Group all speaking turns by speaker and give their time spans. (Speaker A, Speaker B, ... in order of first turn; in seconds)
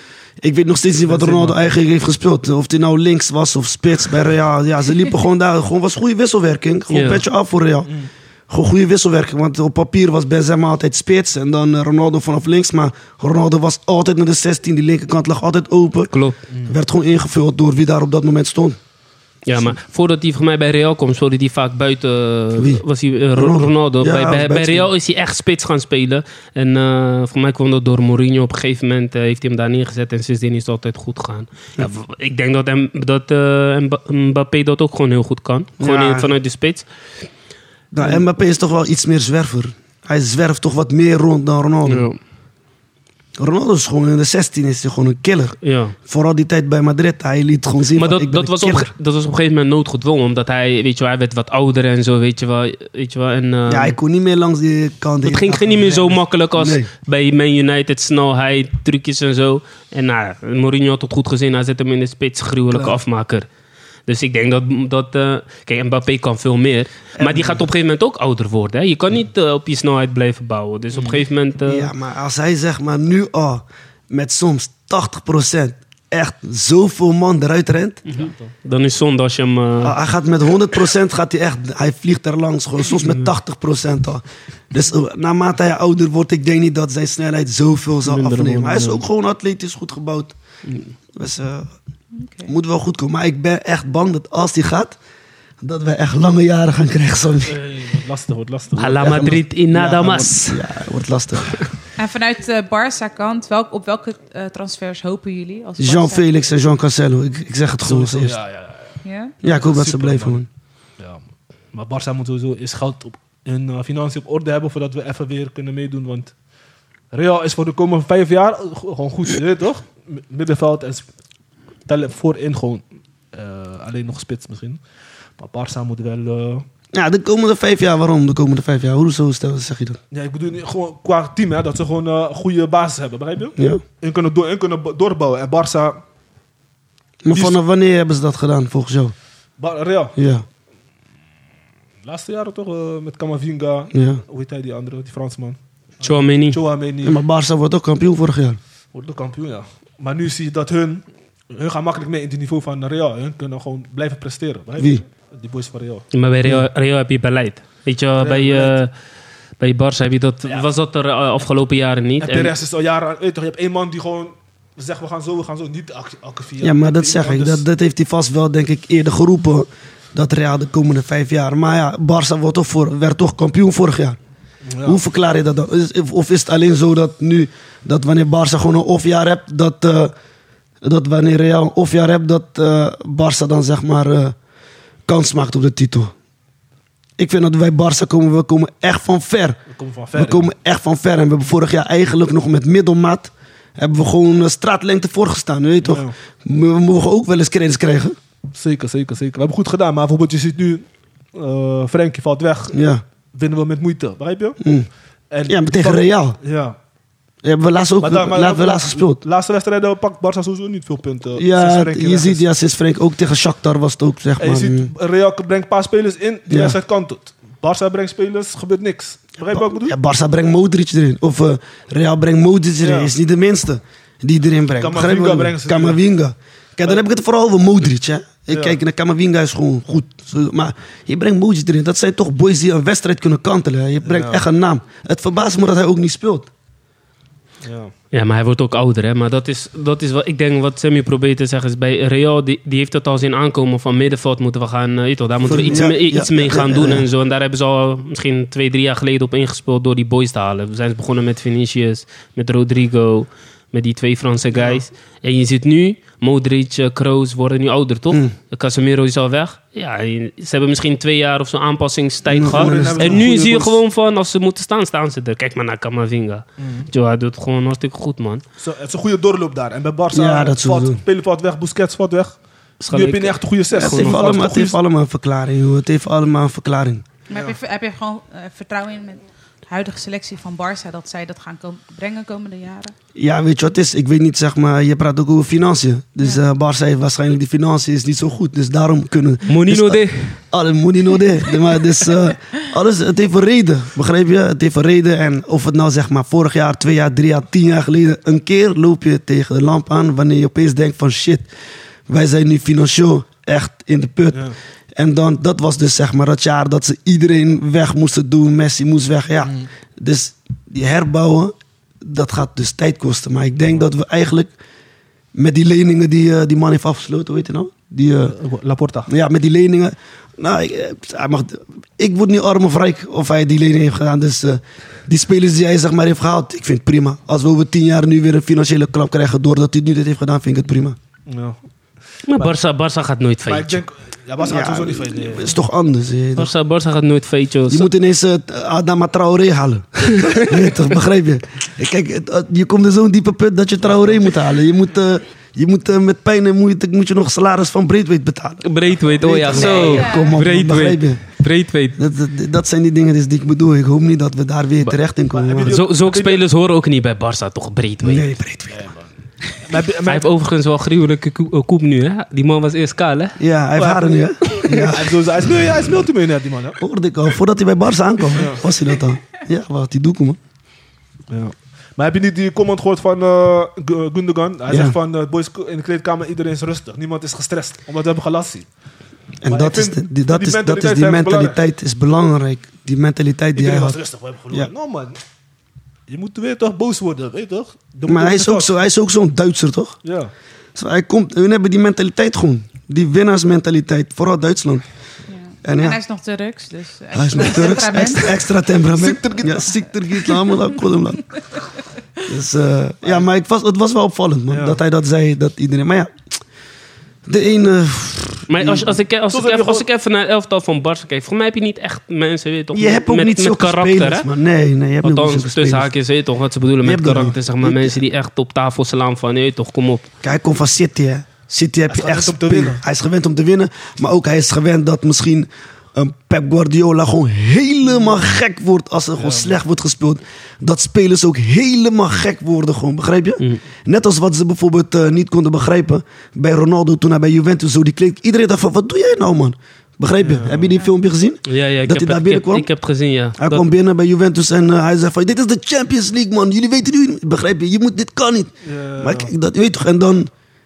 Speaker A: 0.4-7.9, 8.5-16.1, 16.6-18.8, 22.6-24.9, 35.8-36.3, 37.9-42.1, 43.4-48.9, 53.7-56.9, 62.7-63.0, 67.2-67.6, 71.6-78.0, 79.8-90.3, 91.1-91.7, 92.5-95.0, 95.6-97.6, 98.9-101.7, 105.8-108.4, 109.4-110.5, 126.9-130.0, 133.6-133.8, 137.2-139.1, 140.2-140.4, 143.9-144.2, 147.0-148.6, 154.8-155.0, 166.6-174.2, 174.8-180.1, 180.8-184.3, 185.1-186.1, 187.2-189.6, 190.1-198.2, 202.7-203.0, 204.6-204.9, 205.4-206.4, 207.4-209.2, 211.4-214.9, 216.5-216.8, 219.5-236.5, 245.4-247.1, 262.3-263.3, 270.1-271.0, 273.7-277.0, 283.1-301.5, 302.1-314.5, 315.3-318.4, 319.1-331.0, 334.4-336.5, 337.7-351.2, 352.0-355.8, 358.0-358.9, 363.4-365.2, 366.8-370.4, 374.7-375.0, 379.4-384.0, 388.1-390.0, 390.7-394.8, 395.6-396.0, 397.1-401.4, 402.2-406.1, 407.2-408.9, 412.7-415.9, 416.8-418.0, 420.2-442.7, 443.4-450.3
Speaker B: 1.1-1.7, 16.5-16.8, 78.2-78.5, 97.4-99.1, 107.8-110.4, 111.7-116.3, 117.1-121.0, 121.9-124.8, 125.4-126.6, 130.1-136.0, 137.3-137.6, 139.6-140.1, 142.0-147.2, 148.9-156.0, 158.2-158.8, 162.2-167.6, 174.7-175.0, 189.7-190.5, 195.8-196.1, 198.5-202.8, 203.3-204.6, 205.3-206.8, 208.0-212.4, 214.4-219.9, 222.8-223.1, 224.8-226.0, 228.5-228.8, 234.0-234.4, 237.6-237.9, 254.5-254.8, 262.4-263.8, 266.6-266.9, 268.6-272.4, 272.9-274.8, 304.3-304.6, 309.4-309.7, 318.2-319.1, 331.2-331.6, 333.4-335.5, 343.9-344.1, 349.5-350.0, 354.8-356.4, 358.7-359.1, 359.6-360.3, 363.8-366.8, 368.3-368.7, 371.3-378.7, 379.5-381.6, 383.5-385.2, 386.1-388.7, 390.0-390.3, 399.0-399.5, 404.5-404.8, 409.3-409.9, 421.9-422.8, 429.2-429.5, 440.2-440.7, 448.6-449.3
Speaker C: 6.9-7.2, 16.1-16.4, 19.4-36.9, 41.9-42.2, 45.6-45.9, 47.9-53.9, 55.2-63.5, 64.1-71.9, 78.0-80.0, 88.0-89.0, 98.8-100.7, 146.0-146.6, 156.1-158.9, 159.6-162.5, 238.1-268.4, 272.8-274.4, 289.4-290.4, 332.3-333.8, 336.4-337.9, 340.2-340.5, 348.6-352.0, 355.6-358.3, 360.1-363.4, 364.7-364.9, 408.5-414.3, 415.0-420.1, 441.5-443.6
Speaker D: 92.1-92.5, 102.0-106.3, 109.0-109.3, 277.3-282.9, 349.6-350.3, 395.3-398.4